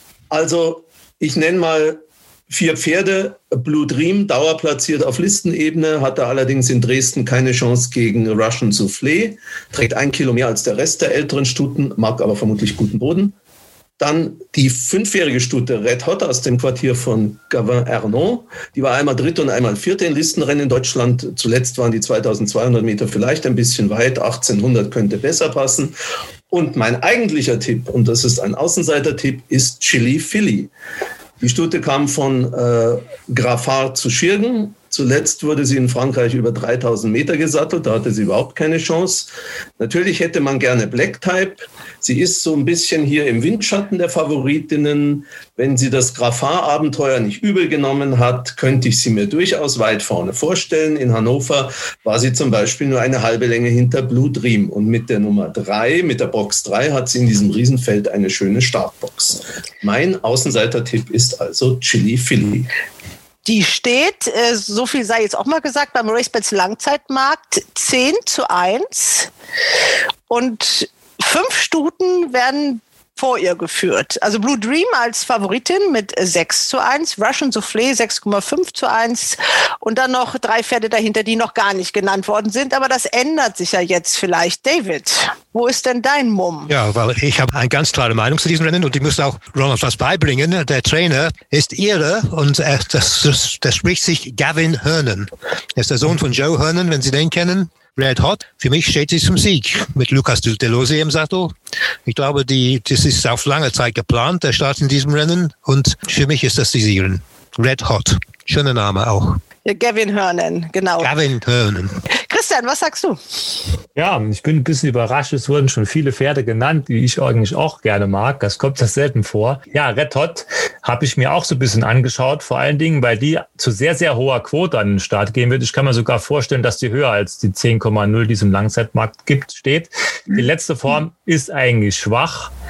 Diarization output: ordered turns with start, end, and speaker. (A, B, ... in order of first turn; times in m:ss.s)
0:00.3-0:13.3 A
0:14.0-0:25.9 A
0:26.5-0:30.7 A
0:31.4-1:02.7 A
1:03.4-1:09.3 B
1:10.3-1:26.7 B
1:26.7-1:41.5 C
1:42.0-1:49.4 C
1:49.6-1:51.1 B
1:51.0-1:52.0 C
1:52.1-1:53.2 B
1:54.0-2:12.5 D